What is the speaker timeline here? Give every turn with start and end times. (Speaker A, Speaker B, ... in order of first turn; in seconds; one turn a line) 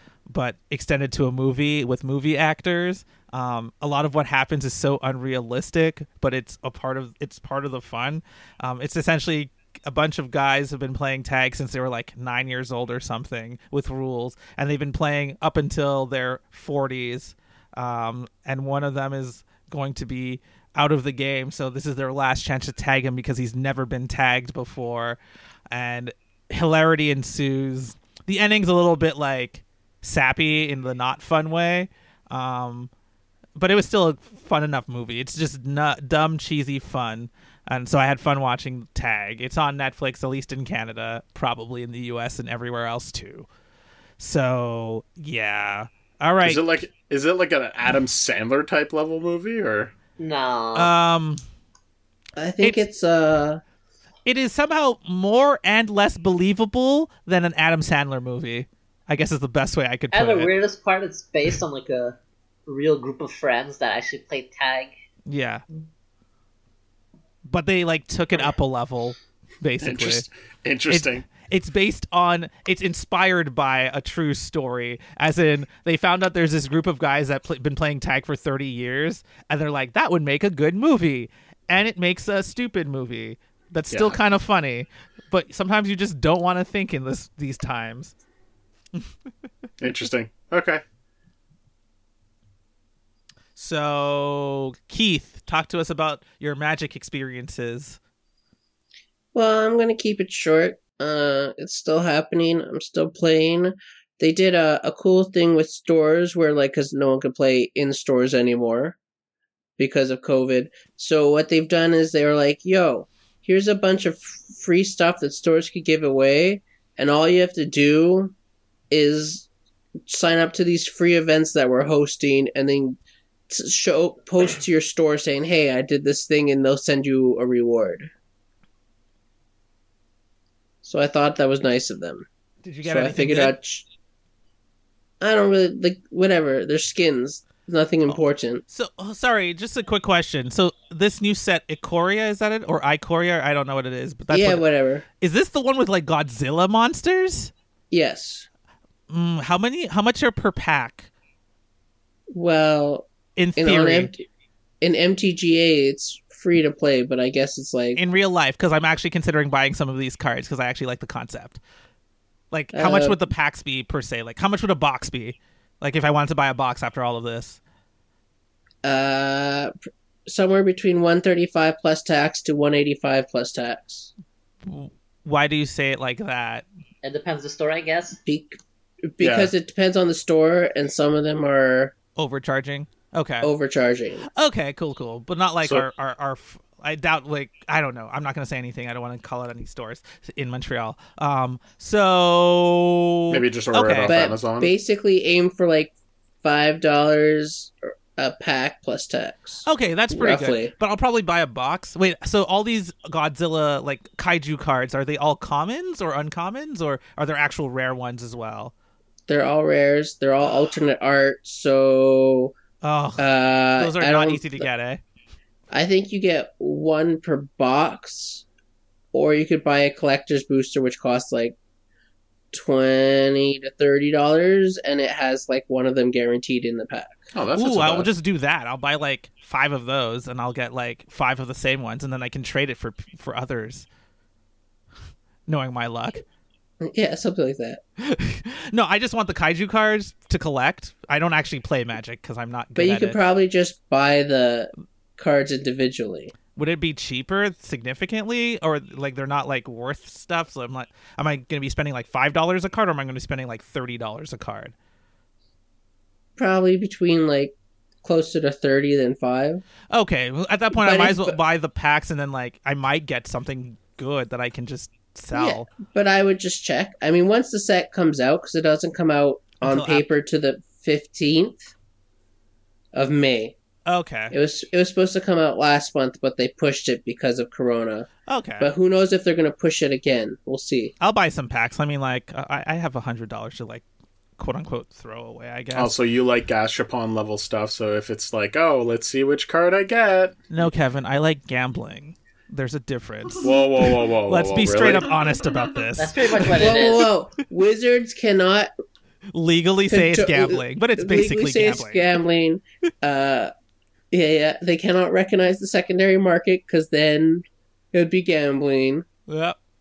Speaker A: 0.3-25.2
Speaker A: 25.7-32.9
Speaker A: 33.6-43.5
Speaker A: 44.2-46.6
Speaker B: 46.4-49.9
Speaker C: 50.2-50.9
Speaker A: 50.8-51.4
Speaker D: 52.4-53.6
Speaker A: 54.2-60.5
Speaker C: 60.1-64.9
Speaker A: 65.3-65.6
Speaker A: 67.5-70.2
Speaker B: 69.8-71.3
Speaker A: 70.9-88.1
Speaker B: 83.9-84.2
Speaker B: 89.8-90.8
Speaker A: 93.6-98.0
Speaker D: 99.3-109.0
Speaker D: 109.8-118.3
Speaker D: 118.9-119.5
Speaker D: 120.1-123.0
Speaker D: 123.5-128.1
Speaker D: 130.8-132.3
Speaker A: 132.6-133.6
Speaker D: 132.8-133.9
Speaker D: 135.2-138.6
Speaker A: 138.1-144.7
Speaker D: 144.3-145.0
Speaker A: 145.2-147.5
Speaker D: 147.9-148.5
Speaker A: 149.1-151.1
Speaker D: 152.3-154.2
Speaker A: 153.4-154.1
Speaker D: 154.8-158.0
Speaker A: 158.0-161.6
Speaker A: 162.5-167.6
Speaker D: 162.7-163.2
Speaker D: 168.8-169.7
Speaker D: 170.3-174.1
Speaker A: 174.6-176.7
Speaker C: 177.0-178.2
Speaker D: 178.3-178.6
Speaker D: 179.1-181.9
Speaker B: 179.2-179.5
Speaker A: 182.2-183.5
Speaker D: 183.4-184.3
Speaker A: 184.3-194.2
Speaker B: 193.3-194.7
Speaker D: 194.0-200.7
Speaker A: 199.7-208.7
Speaker D: 209.3-212.5
Speaker A: 212.8-215.0
Speaker D: 213.2-214.7
Speaker D: 215.7-218.4
Speaker D: 219.1-221.6
Speaker D: 222.5-227.3
Speaker B: 227.3-228.1
Speaker A: 227.6-233.9
Speaker A: 235.5-236.2
Speaker D: 236.8-237.8
Speaker A: 238.0-243.2
Speaker D: 242.8-246.3
Speaker A: 246.6-254.7
Speaker D: 256.4-259.6
Speaker A: 259.9-265.7
Speaker D: 260.8-261.4
Speaker D: 265.3-271.7
Speaker A: 269.6-270.1
Speaker D: 272.9-273.6
Speaker A: 273.9-274.4
Speaker D: 274.3-278.1
Speaker A: 278.3-278.7
Speaker D: 278.6-280.9
Speaker A: 281.0-283.9
Speaker A: 284.4-286.0
Speaker B: 285.8-290.4
Speaker A: 290.5-293.5
Speaker B: 293.4-295.1
Speaker A: 294.3-296.7
Speaker C: 296.0-297.1
Speaker D: 296.6-298.7
Speaker A: 299.3-302.1
Speaker D: 299.9-303.5
Speaker D: 304.1-309.1
Speaker A: 309.3-309.6